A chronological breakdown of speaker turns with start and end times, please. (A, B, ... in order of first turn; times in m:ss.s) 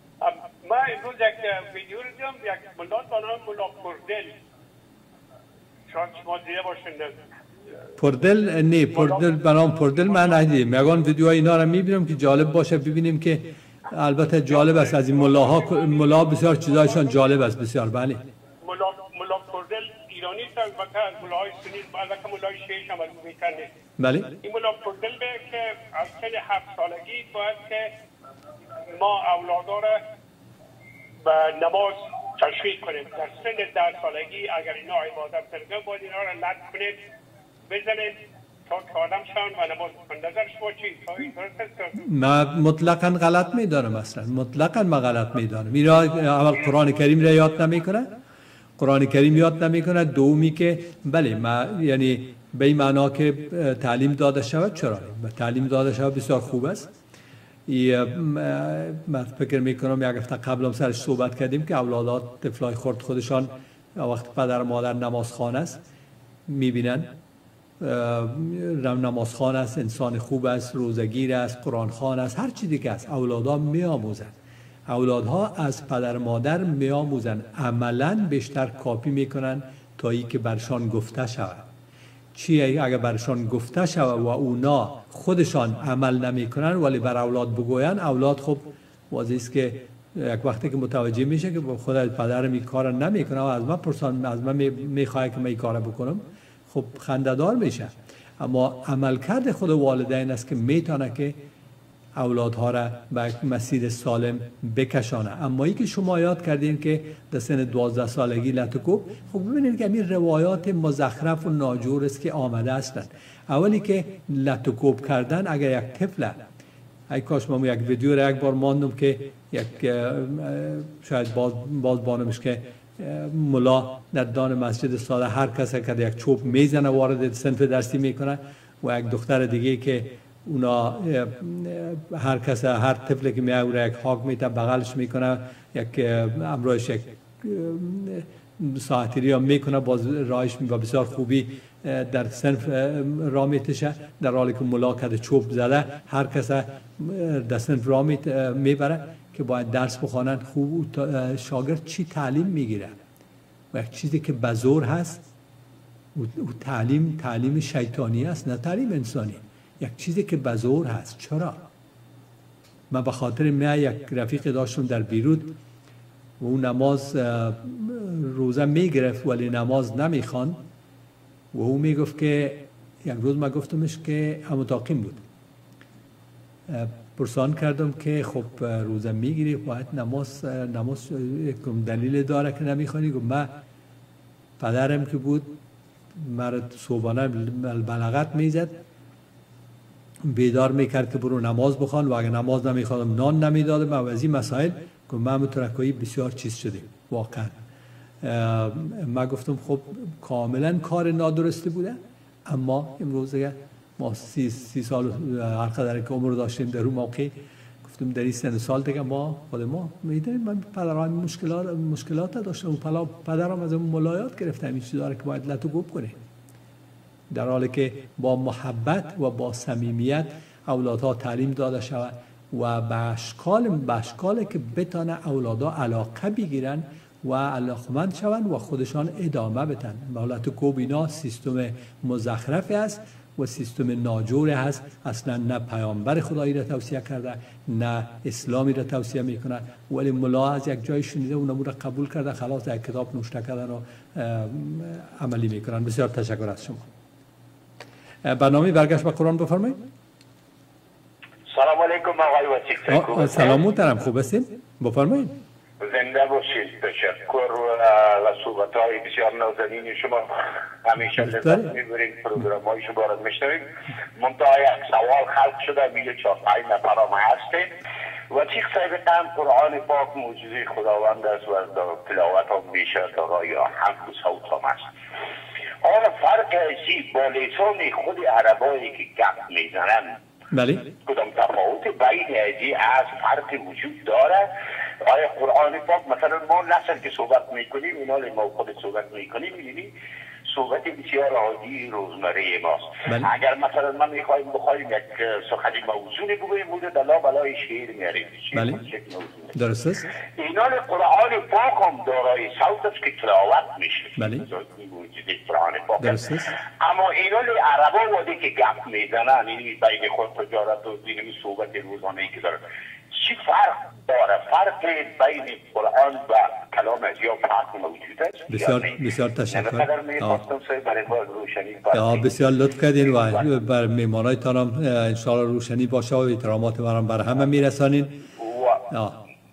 0:00.2-0:04.3 A
0:05.9-0:07.1 A
0:08.0-0:18.2 B
0:08.9-0:09.3 A
0:14.6-0:16.9 A
0:18.6-0:23.7 A
0:24.0-0:24.3 B
0:24.4-0:27.9 A
0:28.9-0:30.0 A
0:31.2-0:37.0 A
0:37.7-0:38.2 A
0:38.7-0:41.9 A
0:42.0-0:48.1 B
0:48.8-0:56.9 B
0:57.7-1:05.8 B
1:06.5-1:07.1 B
1:07.8-1:14.3 B
1:14.9-1:21.6 B
1:22.3-1:41.4 B
1:42.2-1:56.4 B
1:57.1-2:33.0 B
2:33.7-2:35.2 B
2:36.1-2:41.6 B
2:42.9-2:45.6 B
2:46.4-2:50.6 B
2:51.5-2:55.2 B
2:56.7-3:03.5 B
3:04.6-3:05.5 B
3:06.1-3:08.7 B
3:10.2-3:17.5 B
3:18.2-3:36.2 B
3:37.3-4:06.9 B
4:08.2-4:09.8 B
4:11.5-4:13.6 C
4:12.9-4:15.4 B
4:15.8-4:27.7 C
4:21.2-4:21.7 B
4:28.3-4:34.9 C
4:35.8-4:40.2 C
4:40.5-4:40.9 B
4:41.0-4:44.5 C
4:45.0-4:49.9 C
4:50.5-4:59.5 C
4:58.5-4:58.8 B
4:59.5-5:00.1 B
5:00.3-5:06.2 C
5:04.2-5:04.4 B
5:06.0-5:06.5 B
5:06.8-5:22.3 C
5:18.5-5:20.4 B
5:21.9-5:28.2 B
5:23.0-5:23.5 C
5:28.4-5:28.8 C
5:28.9-5:29.2 B